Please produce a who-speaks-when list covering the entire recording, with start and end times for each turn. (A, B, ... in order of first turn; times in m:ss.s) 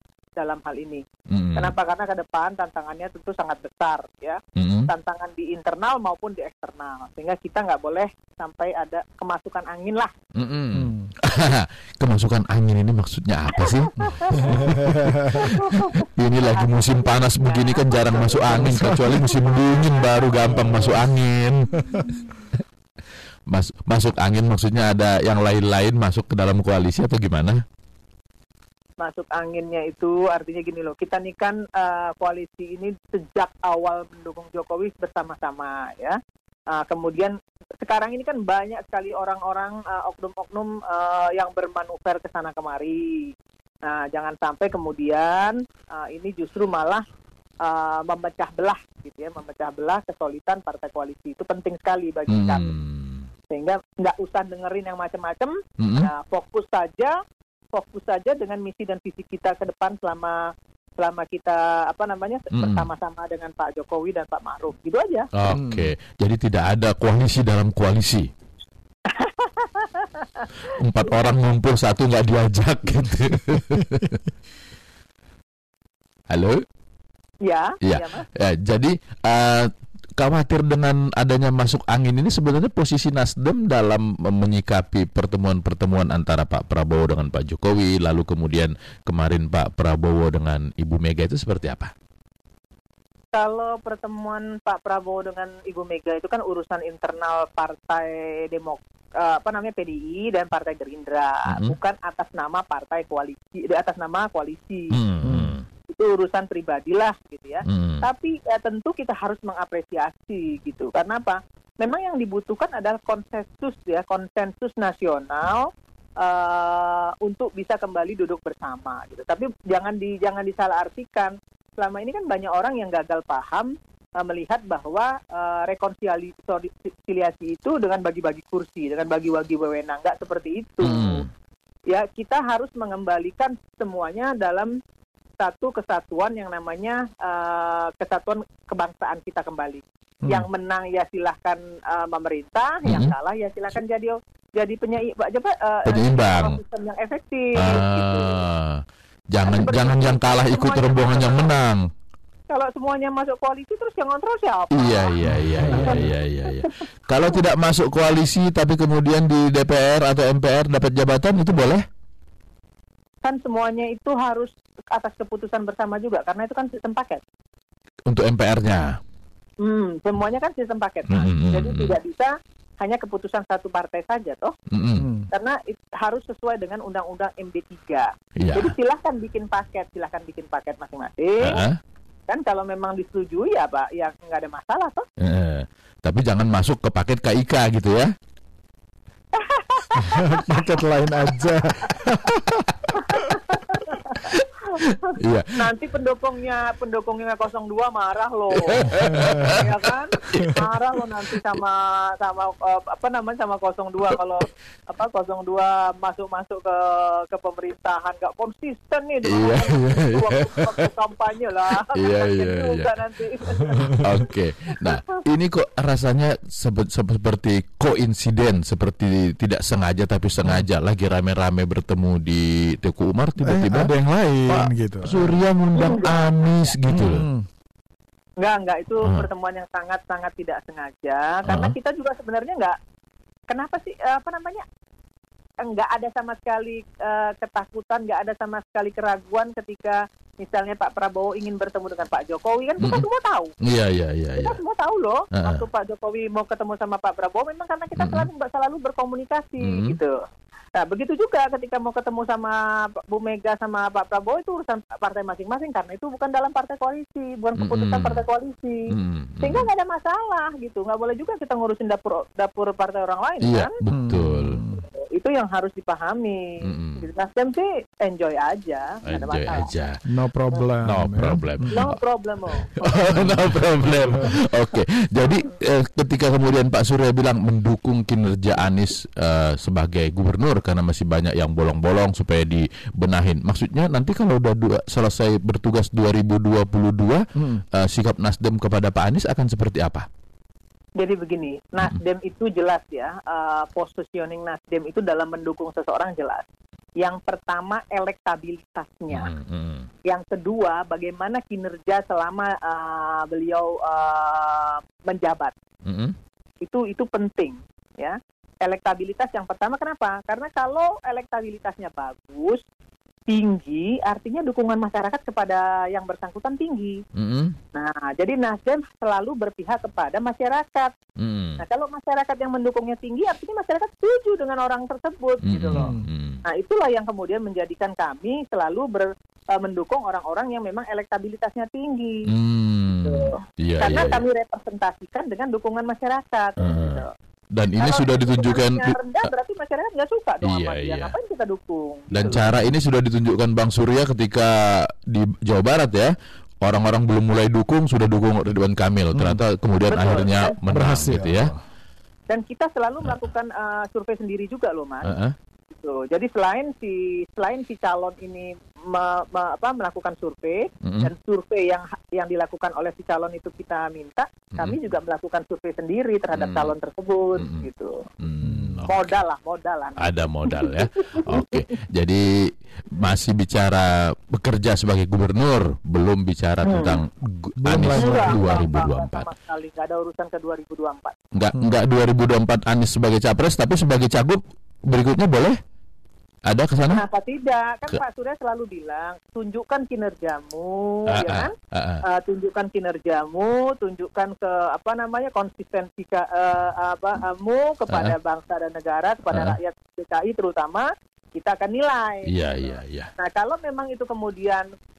0:00.4-0:01.0 A
0:01.3-0:01.7 B
0:01.6-0:10.1 A
0:04.6-0:04.9 B
0:10.4-0:22.0 B
0:10.7-0:11.1 C
0:13.6-0:14.7 A
0:14.3-0:15.4 C
0:15.3-0:20.7 A
0:18.5-0:19.2 C
0:21.9-0:22.2 C
0:23.5-0:27.6 B
0:29.0-0:36.2 A
0:36.7-0:43.3 A
0:43.8-0:47.0 A
0:47.6-0:52.8 A
0:52.3-0:53.2 B
0:53.5-0:57.2 A
0:55.8-0:56.1 B
0:57.7-1:00.4 A
1:01.0-1:05.3 A
1:02.5-1:02.9 B
1:05.3-1:08.3 B
1:05.5-1:05.9 C
1:09.1-1:10.7 A
1:10.8-1:14.2 B
1:16.3-1:16.6 B
1:17.4-1:18.3 A
1:17.8-1:31.9 B
1:33.3-1:45.0 A
1:41.5-1:41.8 B
1:44.9-1:45.6 B
1:45.2-1:45.5 C
1:45.9-2:11.2 A
1:47.6-1:48.0 B
2:10.8-2:11.2 B
2:11.9-2:14.7 A
2:15.4-2:28.4 A
2:22.8-2:23.1 B
2:25.9-2:26.6 B
2:27.6-2:28.8 B
2:29.3-2:31.8 B
2:29.4-2:31.6 A
2:32.5-2:37.4 A
2:34.7-2:41.8 B
2:35.3-2:36.0 C
2:43.2-2:47.2 A
2:48.1-2:49.0 B
2:49.6-2:54.5 A
2:51.1-2:52.0 B
2:54.7-2:55.1 B
2:55.0-2:55.3 C
2:55.3-3:01.6 A
2:58.4-2:58.7 B
3:01.4-3:01.8 B
3:02.3-3:05.0 A
3:05.2-3:08.1 B
3:09.3-3:10.8 A
3:10.0-3:13.4 C
3:13.0-3:35.0 A
3:14.2-3:15.7 B
3:18.6-3:19.6 B
3:19.0-3:19.6 C
3:20.3-3:20.6 B
3:29.2-3:30.9 B
3:31.9-3:33.0 B
3:33.9-3:43.9 B
3:43.4-3:45.4 C
3:44.5-3:47.3 B
3:45.7-3:46.8 A
3:46.9-3:47.5 C
3:48.4-3:52.8 A
3:51.4-3:51.7 B
3:53.5-3:54.6 A
3:55.6-4:03.5 A
4:02.8-4:03.0 B
4:03.6-4:04.6 B
4:04.4-4:10.1 A
4:05.3-4:05.6 B
4:08.0-4:08.3 B
4:09.6-4:10.0 B
4:10.8-4:18.8 A
4:17.6-4:18.2 B
4:18.9-4:19.7 B
4:19.4-4:23.8 A
4:23.4-4:24.6 B
4:23.9-4:24.8 C
4:24.7-4:29.7 A
4:26.6-4:27.1 B
4:29.0-4:30.0 B
4:30.1-4:31.8 C
4:30.8-4:32.0 B
4:31.7-4:32.8 A
4:32.8-4:47.2 B
4:47.4-4:47.6 C
4:47.7-4:50.0 B
4:51.0-4:56.4 A
4:57.0-4:59.3 A
4:59.1-4:59.9 B
5:00.0-5:05.5 A
5:05.9-5:06.1 B
5:06.6-5:12.6 A
5:13.3-5:17.0 A
5:17.2-5:17.6 B
5:17.7-5:20.9 A
5:21.2-5:21.6 B
5:21.6-5:25.9 A
5:25.4-5:26.4 B
5:25.7-5:26.1 C
5:26.4-5:32.3 A
5:32.3-5:34.2 B
5:32.9-5:37.1 A
5:36.6-5:39.3 B
5:37.8-5:42.4 A
5:40.4-5:41.1 B
5:42.1-5:51.5 B
5:49.1-5:49.4 C
5:49.9-5:50.6 A
5:50.7-5:51.6 C
5:52.3-5:55.1 A
5:55.0-5:55.3 B
5:55.8-6:08.0 A
6:00.8-6:01.1 B
6:06.3-6:06.7 B
6:07.4-6:07.7 B
6:08.2-6:09.2 B
6:08.4-6:08.9 C
6:08.8-6:11.6 A
6:10.0-6:12.3 B
6:13.0-6:19.3 B
6:16.6-6:17.0 A
6:17.6-6:18.4 C
6:18.0-6:21.1 A
6:21.4-6:25.6 B
6:26.5-6:27.0 B
6:26.9-6:44.7 A
6:31.1-6:32.0 B
6:37.9-6:38.1 B
6:39.3-6:39.6 B
6:42.2-6:43.1 B